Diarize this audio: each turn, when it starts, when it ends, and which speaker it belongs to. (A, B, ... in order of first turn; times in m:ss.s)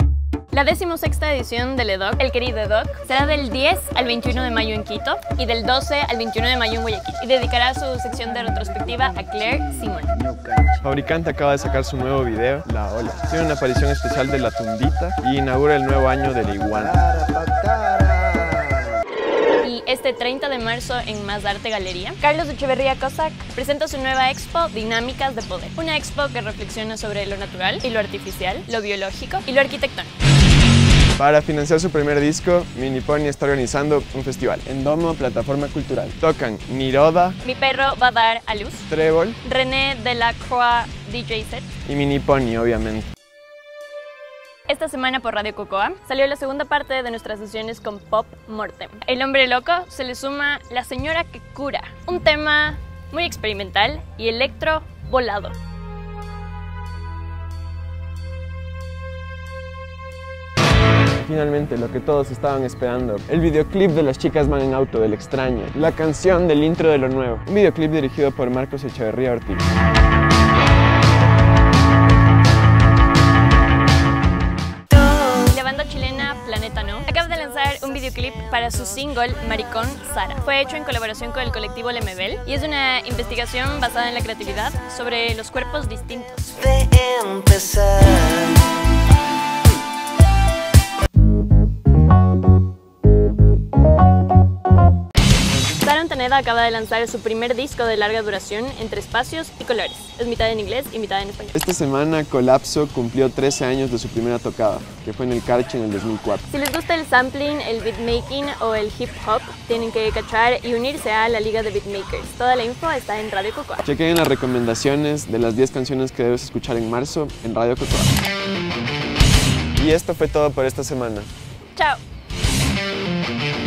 0:00.5-0:10.2 A
0:10.3-0:10.8 B
0:10.8-0:17.0 C
0:17.0-0:18.9 B
0:19.6-0:30.1 A
0:31.2-0:37.4 C
0:37.4-0:38.8 A
0:38.9-0:39.4 C
0:39.4-0:41.7 A
0:41.8-0:43.1 C
0:44.7-0:55.5 A
1:01.2-1:09.6 C
1:15.1-1:26.7 A
1:26.7-1:28.8 B
1:35.8-1:41.6 A
1:41.5-1:46.5 C
1:46.5-1:53.8 A
1:53.8-1:58.2 C
1:59.8-2:01.3 C
2:01.7-2:02.0 A